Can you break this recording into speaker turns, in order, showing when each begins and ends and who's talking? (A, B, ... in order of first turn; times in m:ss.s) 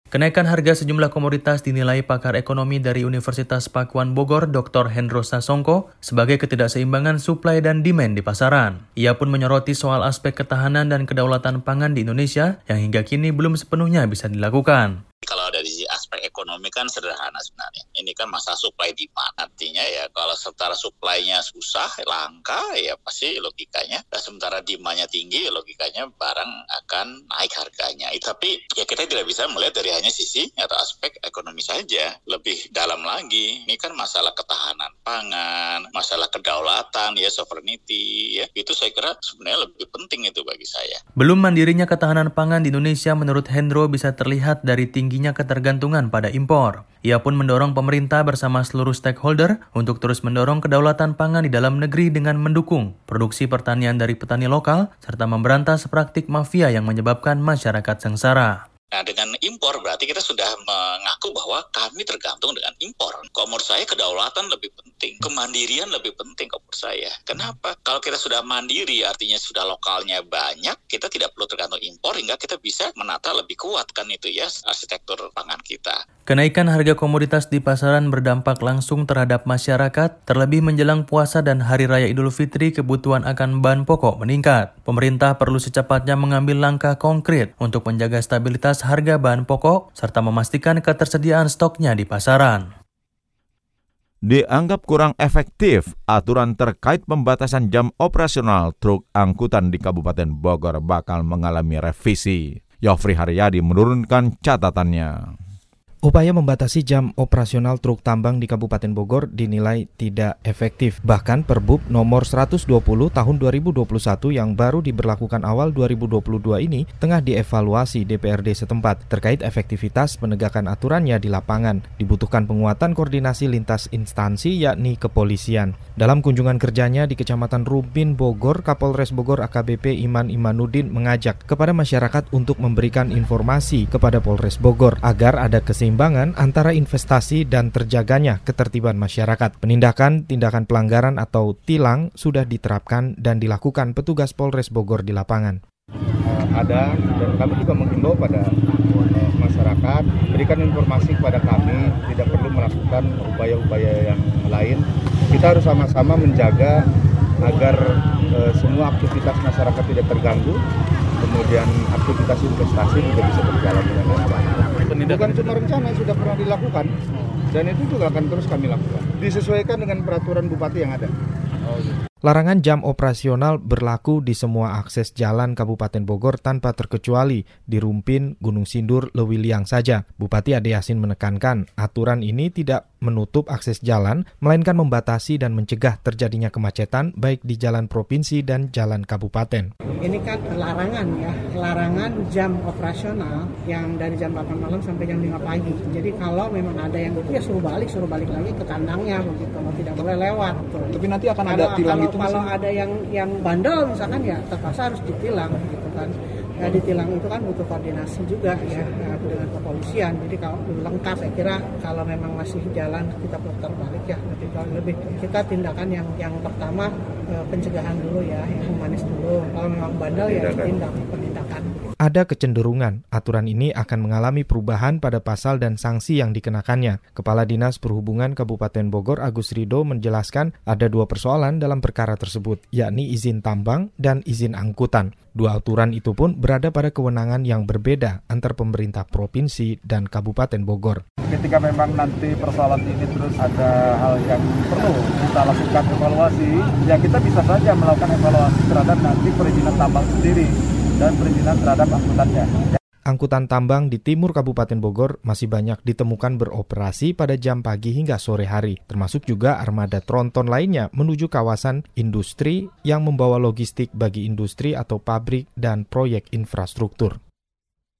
0:00.1-0:15.0 A
0:15.2-0:41.0 B
0:41.2-0:58.6 A
0:58.9-1:16.0 B
1:16.3-1:32.7 A
1:34.3-1:45.3 C
1:46.1-2:25.6 D
2:26.3-2:28.5 E
2:29.1-2:36.8 E
2:37.4-2:37.8 E
2:38.4-2:40.6 E
2:41.2-2:46.9 E
2:47.5-2:51.1 E
2:52.2-3:09.7 D
3:10.0-3:41.7 F
3:20.9-3:22.5 E
3:42.0-4:01.0 D
4:01.3-4:10.5 E
4:11.0-4:12.8 E
4:13.1-4:27.2 D